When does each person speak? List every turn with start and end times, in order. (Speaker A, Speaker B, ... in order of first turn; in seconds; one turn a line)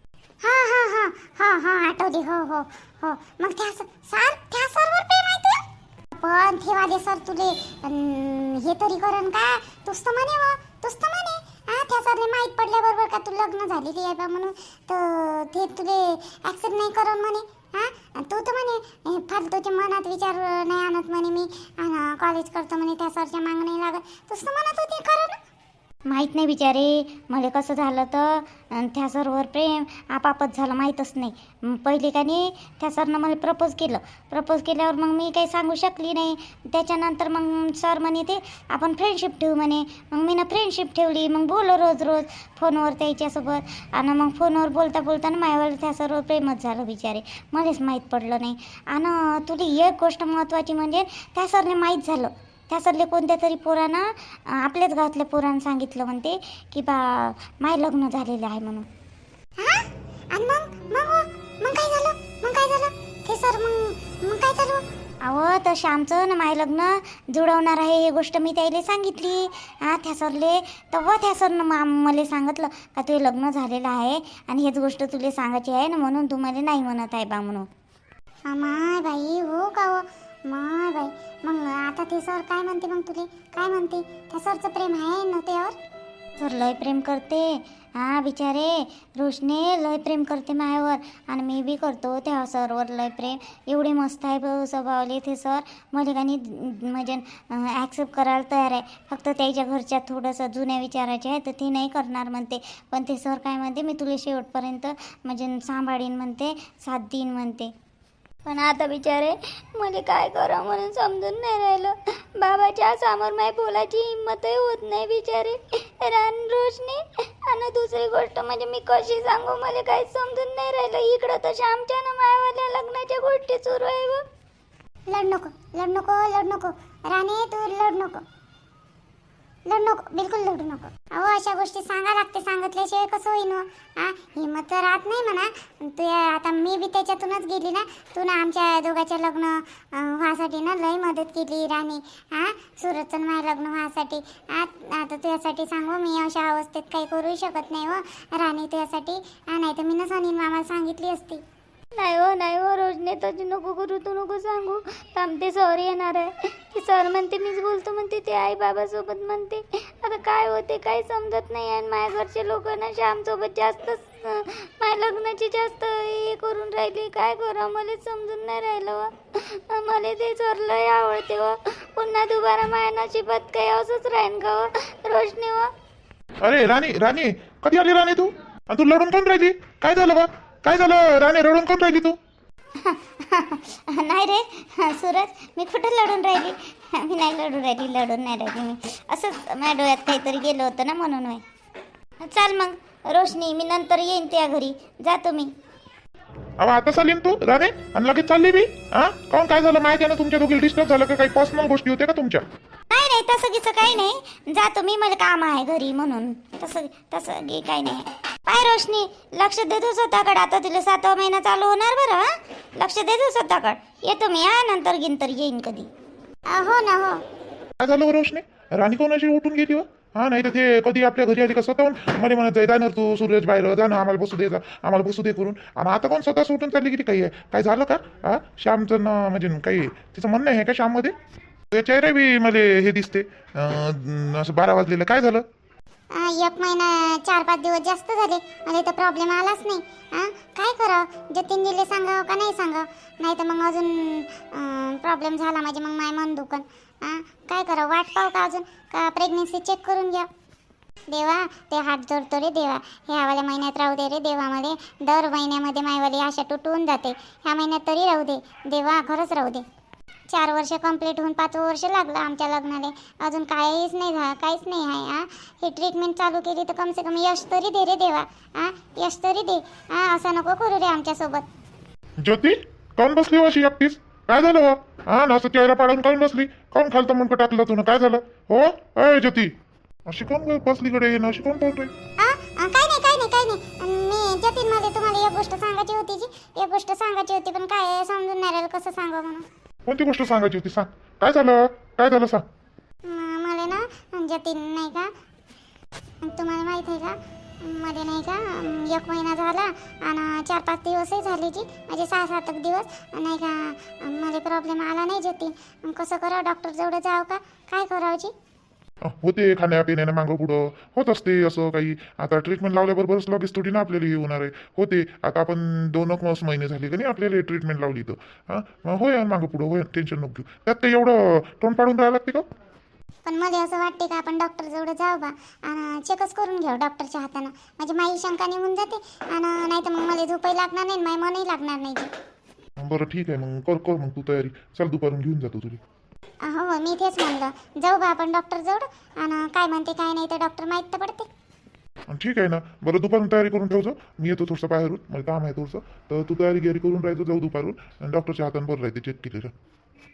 Speaker A: 0.4-5.6
Speaker A: 6.2-25.4
Speaker B: 26.1-58.9
Speaker A: 59.6-64.8
Speaker B: 65.2-77.7
Speaker A: 78.5-85.8
Speaker B: 86.4-107.7
Speaker B: 108.5-124.2
Speaker A: 125.1-128.2
Speaker A: 129.7-151.4
Speaker B: 152.0-175.7
Speaker C: 176.4-182.2
Speaker B: 182.8-191.4
Speaker B: 192.2-195.5
Speaker C: 196.6-202.4
Speaker B: 202.9-215.9
Speaker A: 216.5-217.2
Speaker C: 217.8-231.1
Speaker C: 231.7-235.4
Speaker A: 236.1-250.3
Speaker A: 251.1-259.6
Speaker A: 260.3-271.4
Speaker C: 272.2-279.5
Speaker C: 280.1-281.9
Speaker A: 282.2-289.5
Speaker C: 289.9-292.4
Speaker A: 293.0-295.1
Speaker A: 296.2-308.3
Speaker C: 309.0-322.4
Speaker A: 323.2-332.1
Speaker C: 332.8-335.8
Speaker A: 336.4-341.3
Speaker C: 342.1-349.5